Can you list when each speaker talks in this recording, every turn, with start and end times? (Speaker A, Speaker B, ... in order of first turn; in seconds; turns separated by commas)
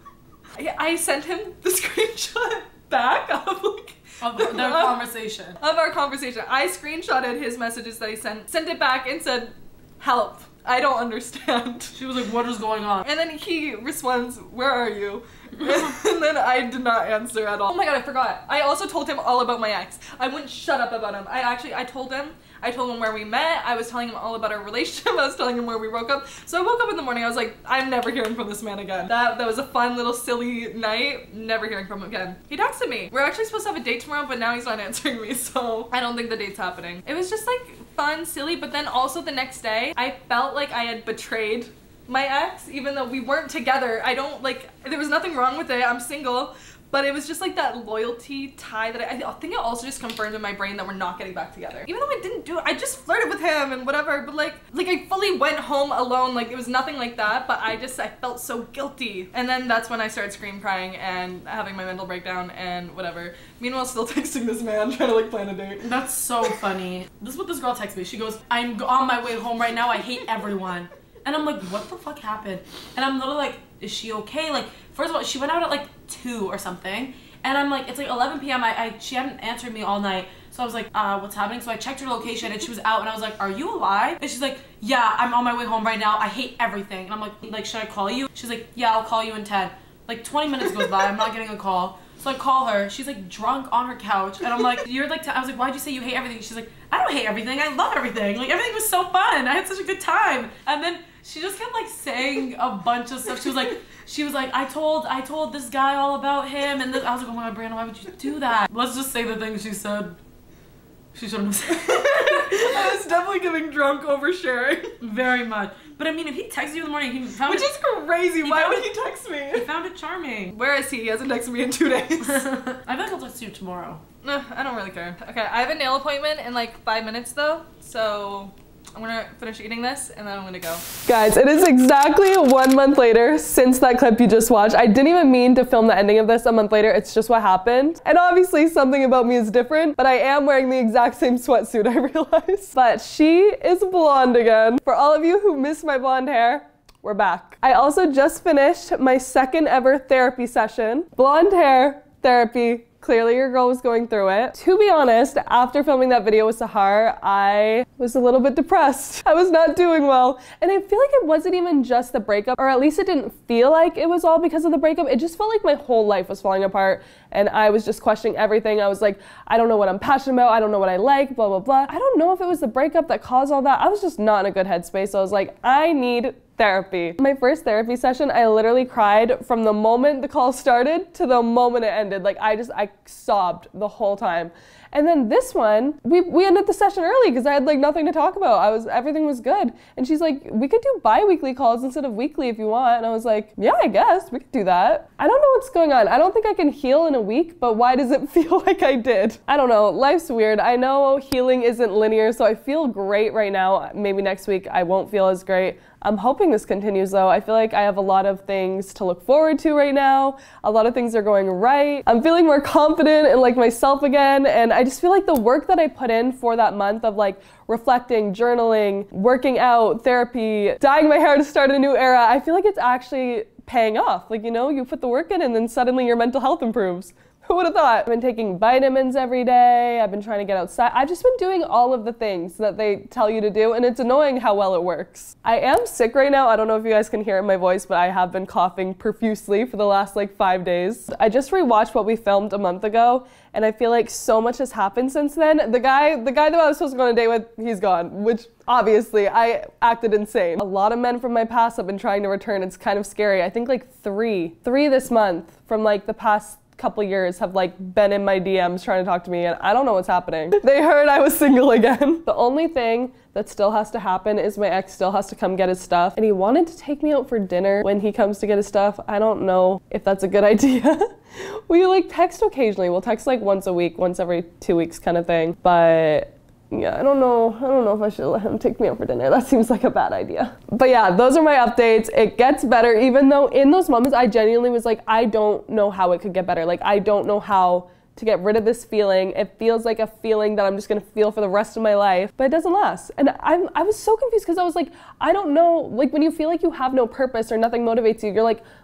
Speaker A: 0.6-5.0, Speaker B: 4.2-5.6, Speaker A: 5.6-12.0, Speaker B: 11.9-13.0, Speaker A: 13.0-65.9, Speaker B: 65.8-110.2, Speaker B: 111.1-112.7, Speaker A: 111.7-115.0, Speaker B: 115.0-117.7, Speaker A: 117.4-119.7, Speaker B: 118.4-118.9, Speaker B: 119.5-120.5, Speaker A: 120.5-122.5, Speaker B: 122.3-124.0, Speaker A: 124.2-130.8, Speaker C: 131.1-298.6